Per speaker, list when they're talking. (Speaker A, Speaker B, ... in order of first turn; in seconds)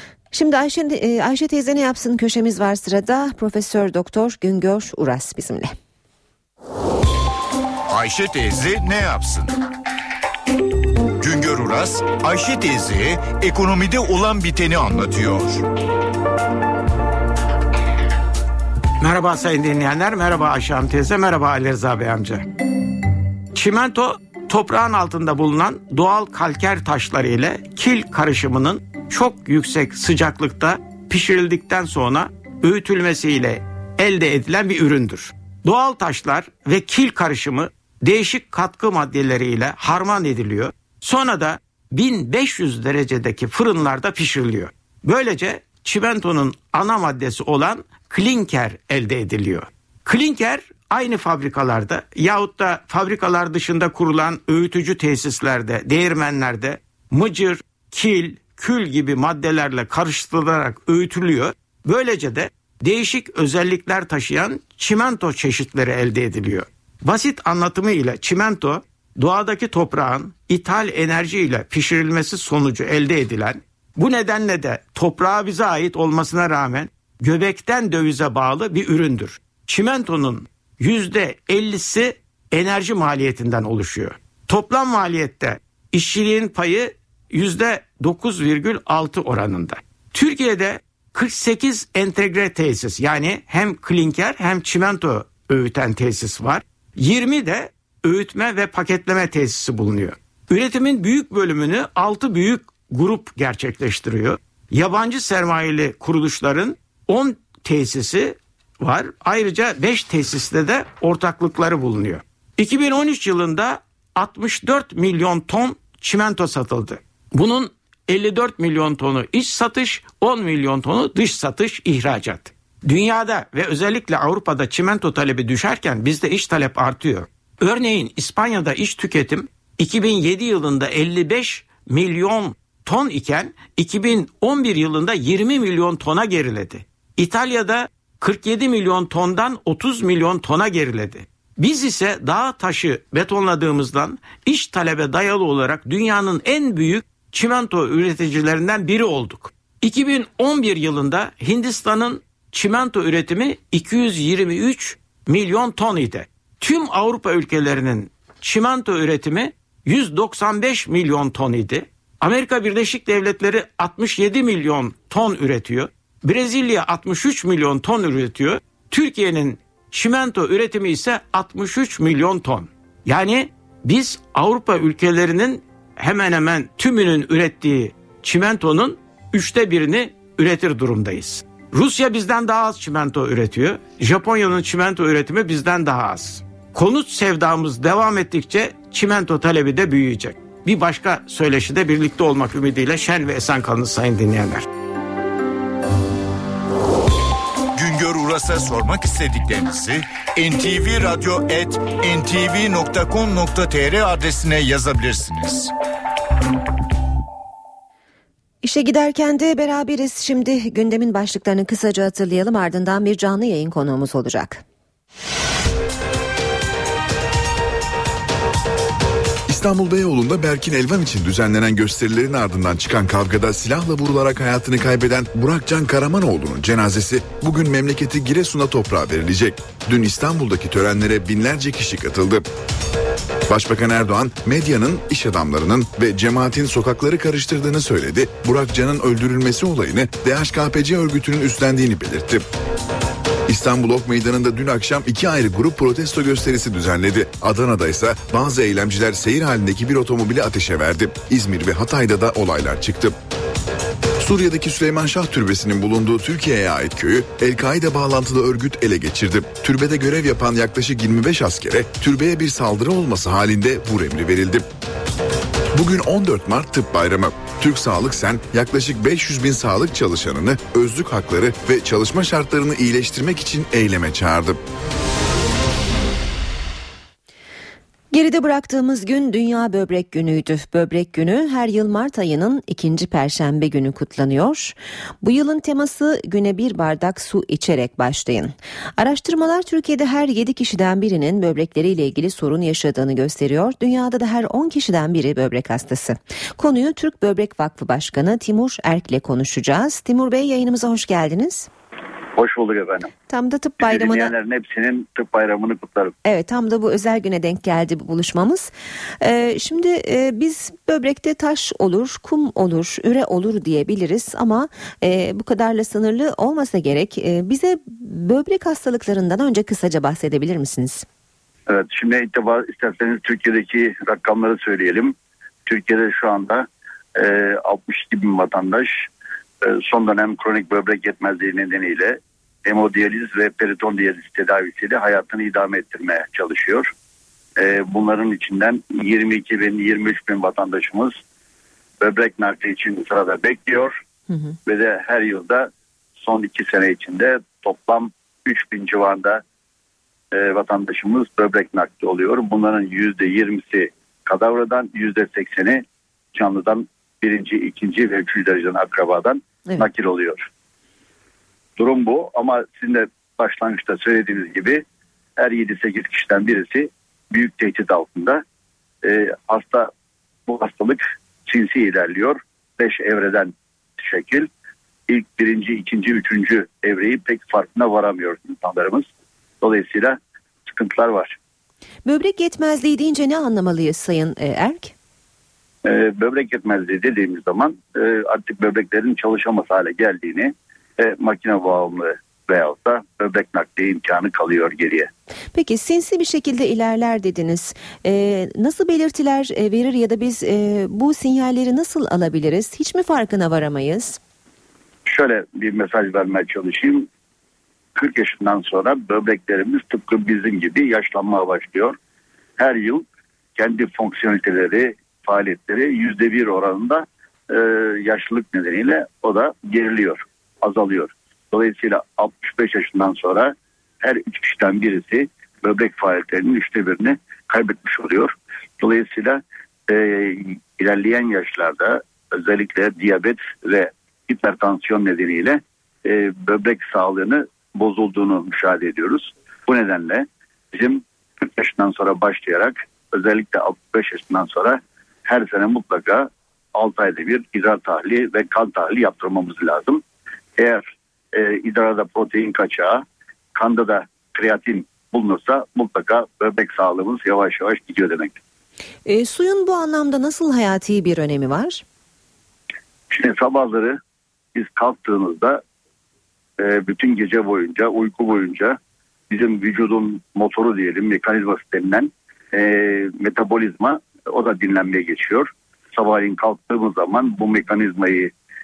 Speaker A: 0.3-5.7, 208.6-214.6, 278.1-301.7, 303.3-304.3, 306.2-321.1, 344.3-344.6, 382.1-384.9, 395.5-404.2, 459.1-461.8
Speaker B: 7.9-9.6, 11.2-15.6, 197.7-205.7
Speaker C: 19.0-22.4, 23.5-194.7
Speaker D: 219.5-232.5, 233.5-242.4, 243.5-253.2, 254.2-264.7, 265.7-274.6
Speaker E: 302.4-303.1, 303.8-306.1, 321.7-325.1, 325.7-329.1, 329.6-336.9, 337.6-341.2, 342.0-344.0, 344.7-349.4, 350.3-355.8, 356.4-360.5, 361.8-364.8, 365.4-368.4, 369.0-369.9, 370.5-374.5, 375.1-379.1, 379.6-381.4, 385.9-395.1, 405.1-407.1, 408.0-412.0, 412.6-413.0, 413.6-450.0, 450.6-453.0, 453.6-458.4, 463.1-464.0, 464.6-465.6, 466.6-468.8, 469.3-478.3